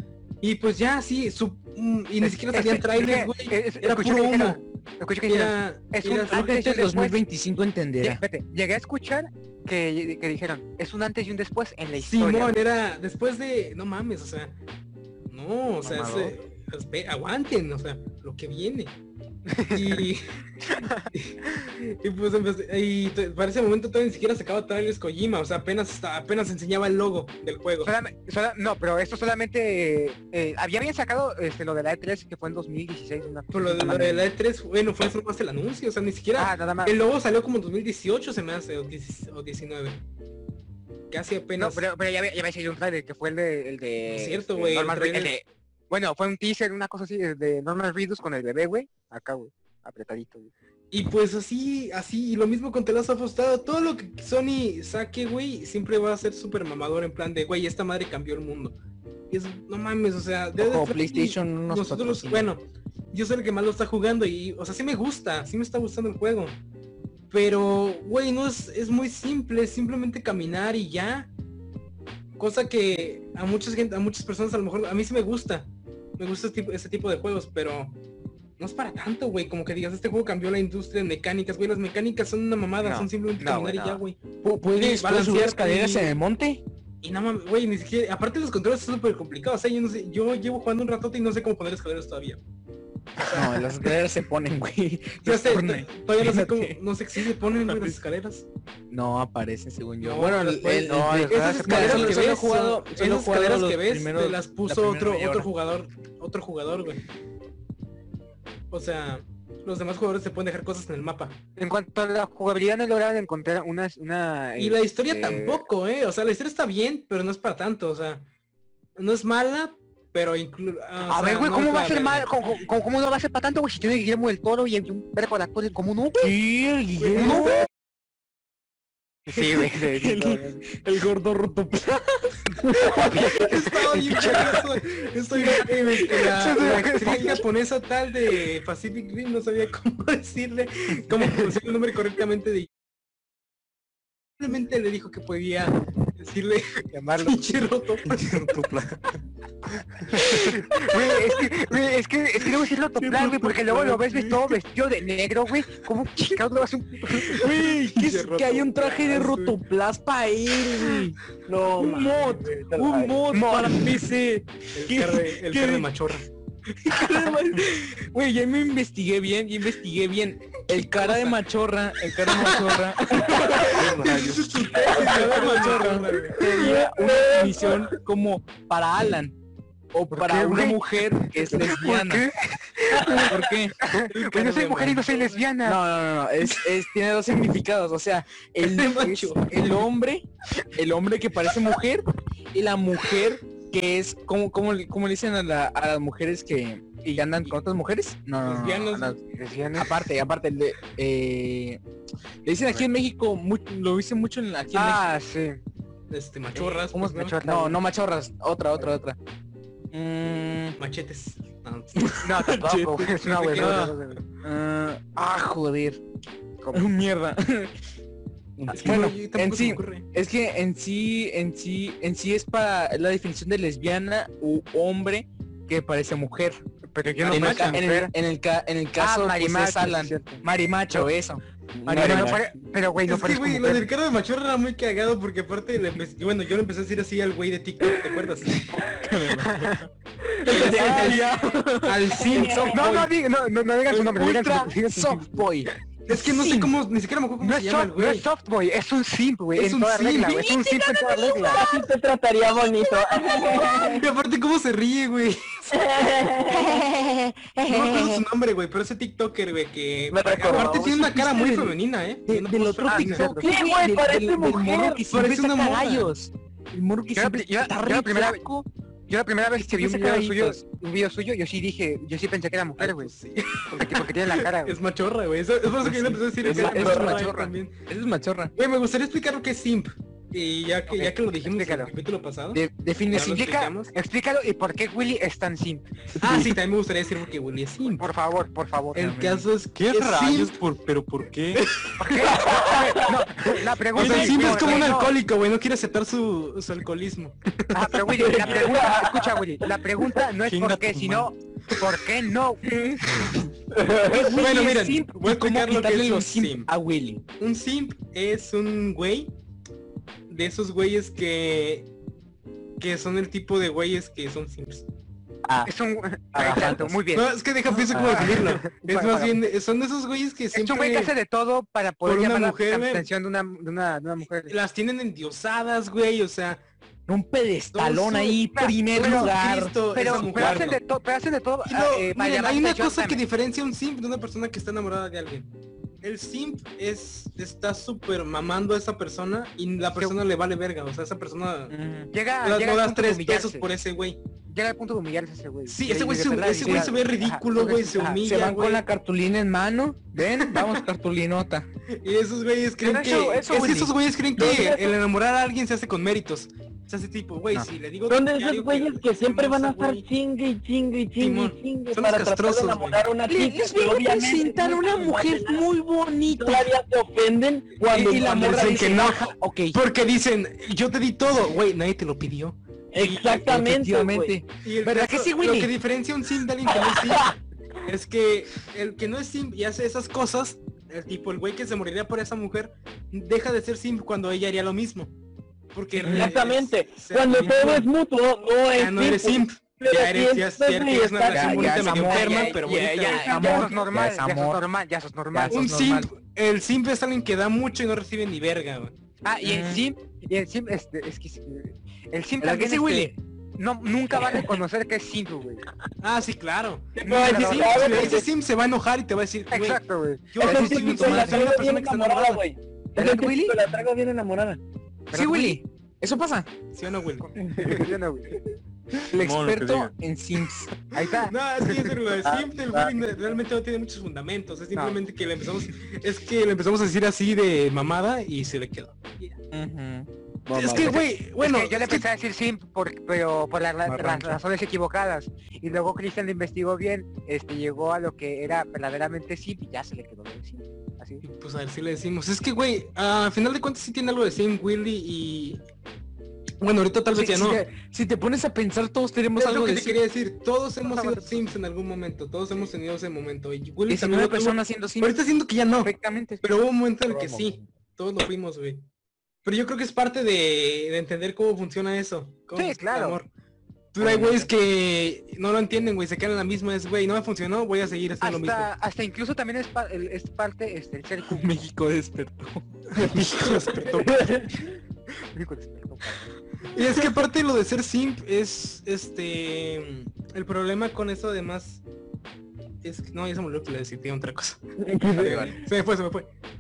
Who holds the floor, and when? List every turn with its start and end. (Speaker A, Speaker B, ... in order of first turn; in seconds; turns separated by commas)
Speaker A: 0.4-4.6, Speaker B: 2.2-7.2, Speaker A: 5.3-6.6, Speaker C: 6.3-8.2, Speaker B: 8.0-12.6, Speaker A: 12.0-14.6, Speaker A: 15.3-19.0, Speaker C: 15.8-16.3, Speaker B: 19.5-20.1, Speaker A: 19.7-20.3, Speaker B: 20.7-21.1, Speaker A: 21.1-27.9, Speaker B: 27.8-34.3, Speaker A: 33.5-40.0, Speaker B: 36.4-37.0, Speaker A: 41.1-41.9, Speaker B: 41.6-50.5, Speaker A: 44.1-45.4, Speaker A: 50.9-58.8, Speaker A: 59.3-66.6, Speaker C: 60.6-62.5, Speaker A: 67.3-71.3, Speaker A: 72.4-78.0, Speaker A: 78.6-84.2, Speaker B: 82.8-84.0, Speaker C: 84.4-86.6, Speaker A: 84.8-86.2, Speaker A: 87.0-92.4, Speaker C: 93.2-96.8, Speaker A: 95.2-98.5, Speaker C: 97.6-98.0, Speaker C: 98.9-105.5, Speaker A: 100.0-107.0, Speaker B: 101.0-102.3, Speaker A: 108.7-111.4, Speaker B: 111.6-115.7, Speaker A: 114.6-118.3, Speaker A: 119.0-122.3, Speaker B: 121.1-126.3, Speaker C: 126.2-127.7, Speaker A: 127.0-127.5, Speaker B: 127.2-127.6, Speaker B: 129.3-130.7, Speaker C: 130.0-133.2, Speaker B: 132.9-134.6, Speaker A: 133.3-142.7, Speaker C: 135.4-136.6, Speaker B: 136.3-137.4, Speaker A: 144.4-148.6, Speaker B: 146.9-147.5, Speaker D: 148.1-149.2, Speaker B: 150.0-157.5, Speaker D: 150.2-150.6, Speaker C: 153.0-154.4, Speaker A: 157.2-159.6, Speaker C: 157.4-161.2, Speaker E: 161.5-163.4, Speaker C: 161.8-165.9, Speaker A: 162.1-162.5, Speaker B: 163.3-163.9, Speaker A: 164.8-166.3, Speaker C: 166.8-173.8, Speaker A: 170.8-171.4, Speaker A: 172.3-172.6, Speaker D: 173.5-175.0, Speaker A: 173.6-176.7, Speaker E: 174.8-177.9, Speaker C: 174.9-179.4, Speaker C: 179.9-182.3, Speaker B: 180.1-185.8, Speaker C: 183.1-183.8, Speaker A: 184.1-185.4, Speaker C: 185.7-199.2, Speaker A: 188.6-189.8, Speaker A: 198.4-199.2, Speaker B: 199.2-200.1, Speaker C: 199.8-201.8, Speaker C: 202.4-205.0, Speaker B: 202.6-202.9, Speaker B: 204.7-205.6, Speaker A: 206.1-207.4, Speaker C: 206.6-206.8, Speaker B: 206.9-207.8, Speaker C: 207.4-209.2, Speaker C: 209.9-210.8, Speaker A: 210.8-212.3, Speaker C: 212.0-213.8, Speaker B: 212.2-214.2, Speaker A: 213.3-214.2, Speaker C: 214.4-216.0, Speaker C: 216.7-217.7, Speaker C: 218.6-226.6, Speaker A: 218.7-220.1, Speaker B: 226.9-228.1, Speaker C: 227.2-232.4, Speaker A: 227.3-227.8, Speaker B: 229.0-231.1, Speaker E: 231.8-232.4, Speaker B: 231.9-233.9, Speaker A: 233.1-238.8, Speaker C: 239.0-239.8, Speaker B: 239.4-239.9, Speaker C: 240.4-243.1, Speaker E: 240.4-241.4, Speaker A: 240.5-241.3, Speaker A: 241.8-243.1, Speaker E: 242.2-242.8, Speaker B: 242.7-245.4, Speaker C: 243.9-246.7, Speaker A: 246.1-248.3, Speaker B: 247.4-251.7, Speaker A: 249.6-250.5, Speaker C: 250.2-251.8, Speaker E: 251.3-254.1, Speaker C: 253.2-253.7, Speaker A: 253.8-256.1, Speaker E: 255.7-256.9, Speaker C: 257.0-257.8, Speaker A: 257.7-263.3, Speaker E: 260.1-260.9, Speaker C: 260.5-268.7, Speaker B: 262.9-263.4, Speaker E: 263.4-265.1, Speaker A: 265.1-266.1, Speaker B: 267.1-268.4, Speaker B: 269.1-273.1, Speaker C: 269.6-270.6, Speaker A: 272.8-277.7, Speaker B: 273.7-274.8, Speaker C: 275.9-278.5, Speaker E: 276.4-277.3, Speaker A: 278.6-283.9, Speaker B: 280.9-281.9, Speaker C: 282.5-283.5, Speaker B: 283.1-285.9, Speaker A: 286.2-288.1, Speaker E: 286.2-286.5, Speaker B: 287.9-289.1, Speaker C: 288.9-289.5, Speaker A: 288.9-290.6, Speaker D: 289.8-291.6, Speaker B: 292.0-295.1, Speaker E: 292.2-293.2, Speaker A: 293.9-297.6, Speaker D: 293.9-294.8, Speaker B: 297.7-302.6, Speaker E: 298.2-299.4, Speaker D: 300.4-301.3, Speaker C: 302.6-303.3, Speaker E: 303.7-304.4, Speaker C: 304.1-307.2, Speaker A: 304.4-306.7, Speaker A: 307.4-309.4, Speaker A: 310.3-311.9, Speaker A: 312.8-314.9, Speaker B: 315.6-317.3, Speaker C: 316.3-317.0, Speaker A: 317.1-321.1, Speaker C: 317.7-318.2, Speaker B: 317.9-319.5, Speaker B: 320.5-324.5, Speaker A: 322.0-323.1, Speaker A: 324.5-326.6, Speaker C: 327.1-329.8, Speaker A: 327.7-330.8, Speaker B: 328.6-329.4, Speaker B: 329.9-333.2, Speaker C: 330.4-330.7, Speaker A: 331.6-335.5, Speaker A: 336.0-341.8, Speaker C: 341.7-342.1, Speaker B: 342.1-343.7, Speaker A: 342.4-344.2, Speaker B: 344.5-348.3, Speaker A: 345.7-348.8, Speaker C: 346.6-346.9, Speaker C: 348.2-351.7, Speaker A: 350.2-350.8, Speaker A: 352.0-360.1, Speaker C: 352.8-354.7, Speaker E: 354.4-355.0, Speaker E: 358.1-365.7, Speaker A: 361.2-363.0, Speaker C: 363.3-366.7, Speaker E: 366.3-369.1, Speaker C: 367.9-369.8, Speaker A: 368.1-372.6, Speaker E: 372.9-374.4, Speaker C: 373.0-375.7, Speaker A: 374.6-385.1, Speaker E: 376.7-377.3, Speaker A: 385.7-387.8, Speaker C: 386.0-386.4, Speaker E: 386.1-392.5, Speaker C: 387.4-387.8, Speaker A: 388.7-393.4, Speaker C: 391.3-394.6, Speaker B: 393.0-395.8, Speaker E: 393.3-393.7, Speaker C: 395.3-396.1, Speaker A: 395.5-398.9, Speaker B: 399.2-405.6, Speaker C: 399.4-399.9, Speaker C: 402.4-403.1, Speaker A: 406.0-409.8, Speaker E: 407.0-408.3, Speaker B: 407.0-408.2, Speaker B: 409.5-410.7, Speaker A: 410.3-412.4, Speaker E: 410.4-414.6, Speaker C: 410.4-411.5, Speaker B: 413.0-413.6, Speaker C: 413.0-413.4, Speaker B: 415.1-415.6, Speaker C: 415.1-416.5, Speaker A: 416.7-417.3, Speaker B: 417.2-418.4, Speaker E: 417.4-417.9, Speaker C: 419.1-420.7, Speaker D: 419.1-419.9, Speaker B: 420.9-422.0, Speaker A: 421.0-429.3, Speaker E: 422.2-423.0, Speaker B: 424.7-425.0, Speaker C: 429.5-431.0, Speaker A: 430.5-432.1, Speaker E: 430.5-431.0, Speaker B: 431.4-441.2, Speaker C: 433.9-434.4, Speaker A: 441.2-445.6, Speaker A: 446.6-447.6, Speaker C: 447.1-450.0, Speaker A: 449.4-458.8, Speaker B: 450.8-451.5, Speaker C: 453.9-455.2, Speaker C: 455.8-456.4, Speaker E: 457.1-457.6, Speaker A: 459.4-463.3, Speaker B: 462.5-463.2, Speaker A: 463.9-468.7, Speaker E: 464.0-464.4, Speaker B: 468.2-471.5, Speaker C: 471.3-473.0, Speaker A: 473.0-474.2, Speaker E: 474.1-474.5, Speaker B: 475.3-476.3, Speaker A: 476.7-481.8, Speaker A: 482.8-486.3, Speaker E: 484.8-485.5, Speaker C: 485.2-485.6